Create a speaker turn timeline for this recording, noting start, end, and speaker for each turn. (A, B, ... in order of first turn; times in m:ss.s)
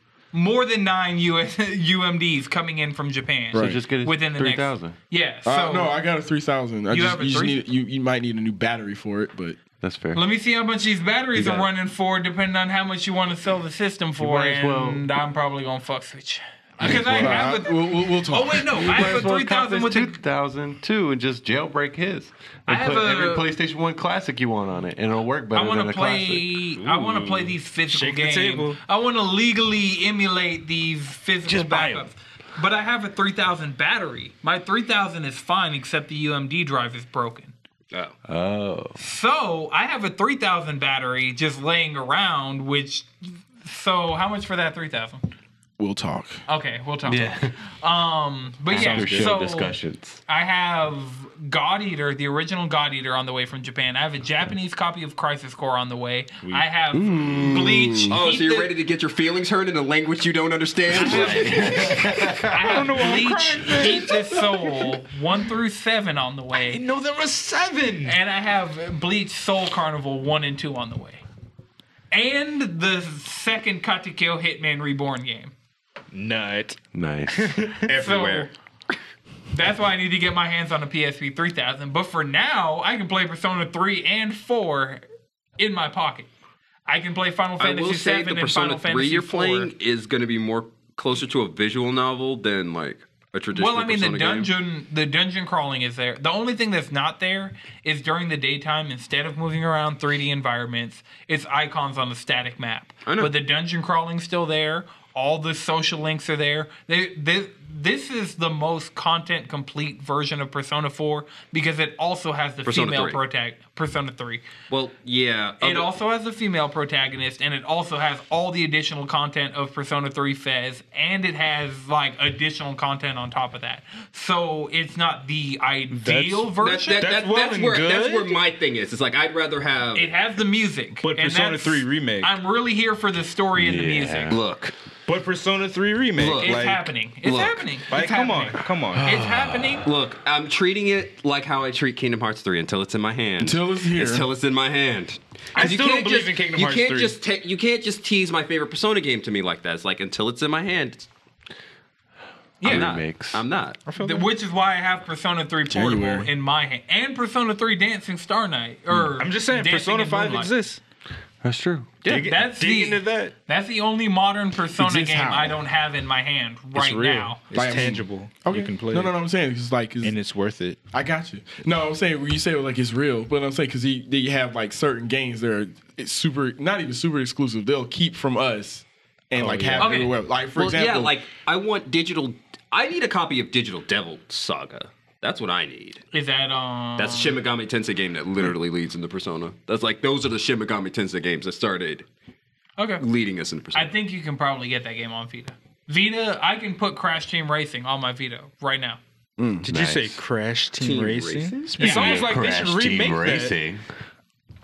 0:00.3-0:05.9 A
0:03.5-0:05.0 B
0:03.5-0:03.8 C
0:05.4-0:09.6 C
0:06.9-0:07.6 A
0:09.8-0:10.2 B
0:10.1-0:20.2 A
0:11.4-0:11.7 B
0:14.2-0:15.1 B
0:16.8-0:17.5 B
0:16.9-0:19.3 C
0:18.7-0:26.5 B
0:22.7-0:23.5 A
0:25.5-0:37.5 A
0:26.8-0:28.8 D
0:31.5-0:32.1 D
0:38.3-0:39.0 B
0:39.0-0:45.2 A
0:45.8-0:46.4 C
0:46.5-0:58.7 A
0:47.1-0:47.6 B
0:48.7-0:50.2 B
0:48.7-0:49.4 D
0:56.9-0:58.2 B
0:58.0-1:02.1 E
1:00.9-1:02.8 B
1:01.0-1:06.8 A
1:02.6-1:04.9 D
1:06.5-1:08.2 D
1:08.0-1:11.2 A
1:12.1-1:15.5 A
1:16.1-1:16.8 D
1:16.9-1:17.6 B
1:17.3-1:17.9 D
1:17.9-1:18.5 E
1:17.9-1:18.5 A
1:19.5-1:25.0 A
1:25.6-1:26.3 A
1:26.9-1:29.7 A
1:27.6-1:34.5 E
1:33.5-1:54.4 A
1:43.1-1:43.3 E
1:52.6-1:53.2 E
1:54.7-1:55.9 E
1:55.6-2:07.1 A
2:05.9-2:08.4 D
2:06.6-2:10.1 E
2:09.9-2:14.3 A
2:11.0-2:12.3 D
2:13.6-2:14.4 B
2:14.3-2:14.7 E
2:15.1-2:16.9 D
2:16.2-2:16.6 E
2:16.4-2:19.9 A
2:17.2-2:17.7 E
2:17.9-2:19.1 D
2:19.0-2:19.9 B
2:19.8-2:31.1 E
2:23.4-2:24.3 C
2:25.5-2:27.2 D
2:32.6-2:32.9 A
2:32.6-2:33.4 B
2:32.6-2:33.8 E
2:33.8-2:34.3 D
2:34.0-2:40.5 A
2:35.7-2:36.3 C
2:39.0-2:40.8 D
2:41.4-2:42.1 B
2:42.0-2:43.3 D
2:42.1-2:47.4 A
2:44.8-2:45.6 C
2:46.8-2:49.1 D
2:47.5-2:50.2 C
2:50.0-2:50.8 D
2:50.9-3:01.2 C
2:59.4-3:00.0 D
2:59.8-3:00.2 A
3:00.6-3:06.0 E
3:06.1-3:07.4 A
3:07.0-3:12.1 E
3:12.8-3:13.0 A
3:13.0-3:13.9 E
3:13.7-3:19.0 A
3:19.4-3:20.2 B
3:19.6-3:23.6 D
3:20.8-3:22.1 E
3:21.7-3:23.8 B
3:21.8-3:22.2 A